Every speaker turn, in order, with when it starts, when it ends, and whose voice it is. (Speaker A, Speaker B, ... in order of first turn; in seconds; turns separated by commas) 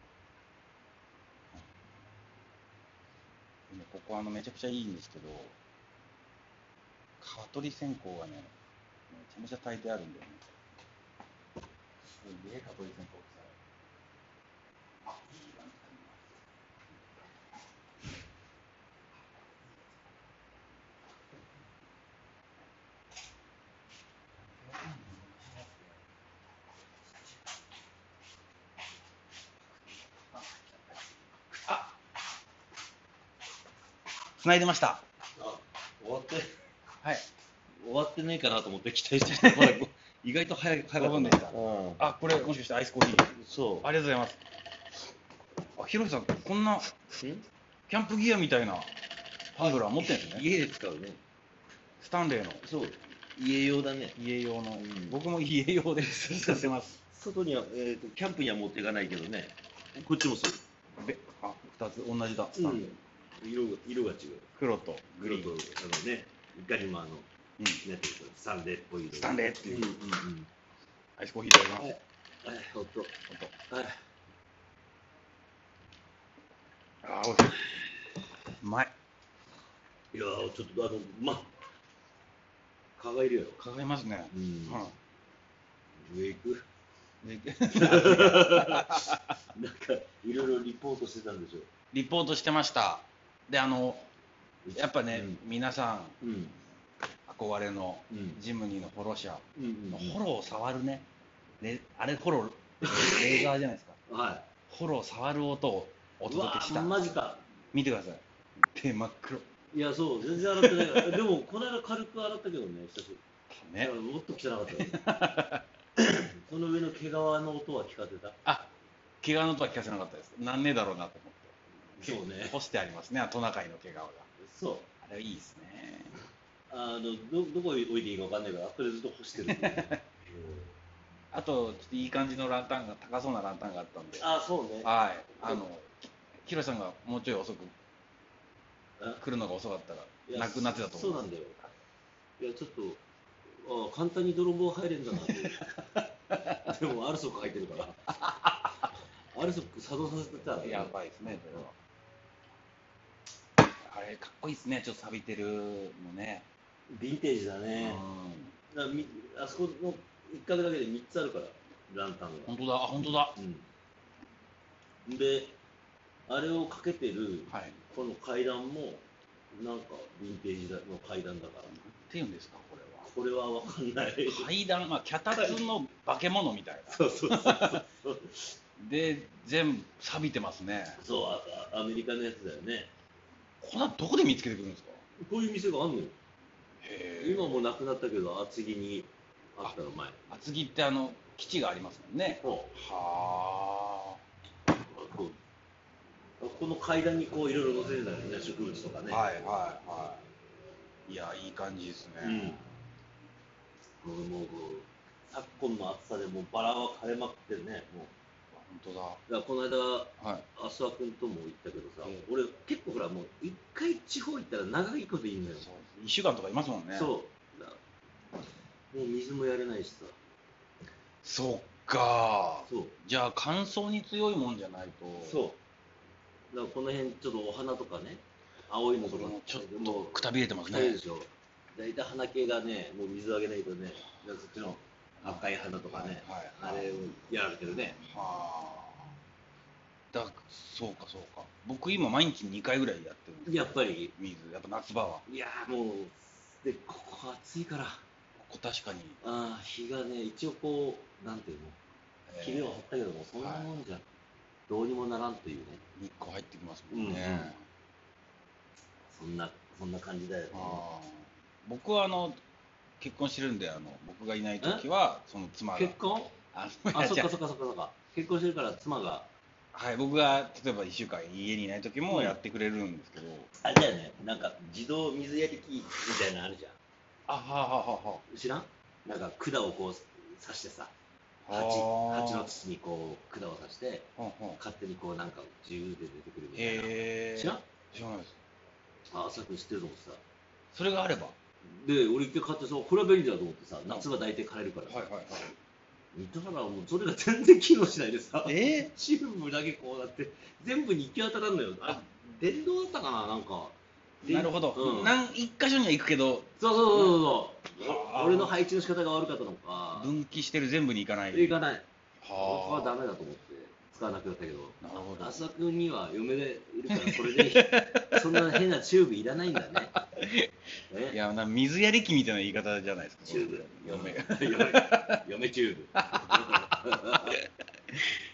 Speaker A: 3.7-5.6, Speaker A: 7.2-8.5, Speaker A: 9.1-10.5, Speaker A: 12.2-13.6, Speaker A: 15.0-16.4, Speaker A: 24.4-26.0, Speaker A: 34.4-35.0, Speaker B: 35.4-36.5, Speaker B: 37.8-42.0, Speaker A: 39.4-39.7, Speaker A: 41.0-44.4, Speaker B: 43.4-43.9, Speaker A: 45.8-47.0, Speaker B: 47.1-47.5, Speaker A: 47.9-48.9, Speaker A: 49.5-50.5, Speaker B: 49.6-51.2, Speaker A: 52.0-52.6, Speaker B: 52.6-54.2, Speaker A: 54.2-57.0, Speaker B: 54.8-55.2, Speaker B: 56.5-60.6, Speaker A: 61.0-62.9, Speaker B: 62.5-64.5, Speaker A: 64.6-65.5, Speaker B: 65.2-67.3, Speaker B: 67.8-70.5, Speaker A: 69.1-69.9, Speaker A: 71.2-71.9, Speaker B: 71.8-73.2, Speaker B: 73.7-74.0, Speaker A: 77.0-77.7, Speaker A: 78.6-78.9, Speaker B: 80.1-81.5, Speaker B: 83.0-83.6, Speaker A: 83.6-85.0, Speaker B: 84.3-84.8, Speaker B: 86.0-86.7, Speaker A: 87.2-89.4, Speaker B: 87.7-91.7, Speaker A: 91.9-94.1, Speaker B: 94.7-95.4, Speaker A: 94.7-96.2, Speaker B: 96.2-96.6, Speaker A: 97.3-101.1, Speaker B: 98.1-98.4, Speaker B: 99.6-100.2, Speaker A: 101.6-104.0, Speaker B: 102.8-103.5, Speaker B: 104.1-104.5, Speaker A: 104.7-107.2, Speaker B: 106.3-107.5, Speaker A: 107.7-109.5, Speaker B: 109.7-113.2, Speaker A: 110.3-111.2, Speaker A: 113.5-113.9, Speaker B: 113.8-115.1, Speaker A: 114.8-115.6, Speaker B: 116.0-118.4, Speaker A: 118.5-118.7, Speaker A: 119.2-124.3, Speaker B: 122.0-122.6, Speaker B: 124.4-124.9, Speaker A: 125.0-126.1, Speaker B: 126.7-130.7, Speaker A: 129.5-130.0, Speaker A: 131.3-134.3, Speaker B: 134.2-134.9, Speaker A: 134.8-137.7, Speaker B: 139.0-139.2, Speaker A: 139.2-141.2, Speaker B: 140.3-141.6, Speaker B: 142.4-143.0, Speaker B: 143.6-148.1, Speaker A: 148.2-148.7, Speaker B: 149.3-151.7, Speaker A: 150.6-151.8, Speaker A: 153.8-156.5, Speaker B: 156.9-158.0, Speaker A: 157.8-158.5, Speaker B: 158.7-162.6, Speaker A: 162.5-163.4, Speaker B: 163.3-163.7, Speaker B: 165.1-165.6, Speaker B: 166.3-171.7, Speaker A: 167.5-167.8, Speaker A: 171.7-173.1, Speaker B: 173.0-174.5, Speaker A: 174.3-177.8, Speaker B: 175.3-175.7, Speaker B: 176.9-178.6, Speaker A: 178.8-181.0, Speaker B: 181.0-182.9, Speaker A: 183.6-185.0, Speaker B: 185.2-186.2, Speaker A: 186.8-187.6, Speaker B: 187.2-190.2, Speaker A: 190.3-194.2, Speaker B: 192.4-192.7, Speaker B: 194.7-195.4, Speaker B: 196.4-199.3, Speaker A: 199.1-200.2, Speaker A: 201.1-202.6, Speaker B: 202.2-202.6, Speaker B: 204.0-208.1, Speaker A: 208.5-209.2, Speaker B: 209.3-215.7, Speaker A: 210.2-210.5, Speaker A: 215.6-217.1, Speaker B: 216.9-217.8, Speaker B: 218.9-220.2, Speaker A: 221.2-225.4, Speaker B: 222.7-223.0, Speaker B: 225.2-225.6, Speaker B: 226.5-238.0, Speaker A: 229.0-231.0, Speaker A: 235.2-236.9, Speaker A: 238.0-239.2, Speaker A: 240.1-245.2, Speaker B: 243.4-244.1, Speaker B: 245.3-248.0, Speaker A: 248.4-249.2, Speaker B: 249.2-251.8, Speaker A: 252.3-252.8, Speaker B: 252.4-254.1, Speaker A: 253.3-253.7, Speaker B: 254.7-255.8, Speaker A: 256.0-257.6, Speaker B: 256.9-257.6, Speaker B: 259.1-260.9, Speaker A: 260.5-262.4, Speaker A: 263.0-266.0, Speaker B: 264.6-264.9, Speaker B: 265.7-266.4, Speaker A: 266.5-267.3, Speaker B: 266.9-269.3, Speaker A: 269.7-273.5, Speaker B: 272.1-272.4, Speaker B: 273.6-276.8, Speaker A: 277.3-278.2, Speaker B: 278.3-280.9, Speaker A: 281.4-282.5, Speaker B: 281.5-287.6, Speaker A: 284.2-284.6, Speaker A: 286.5-288.4, Speaker B: 289.1-290.2, Speaker A: 290.7-291.4, Speaker B: 291.6-295.5, Speaker A: 294.9-295.5, Speaker B: 296.1-305.2, Speaker A: 298.5-298.9, Speaker A: 304.3-308.6, Speaker B: 306.6-310.1, Speaker A: 309.9-311.6, Speaker B: 311.3-319.9, Speaker A: 312.2-312.9, Speaker A: 314.8-315.5, Speaker A: 316.9-318.6, Speaker A: 319.7-320.5, Speaker B: 320.9-321.2, Speaker A: 321.1-325.2, Speaker B: 323.2-327.4, Speaker A: 326.0-328.1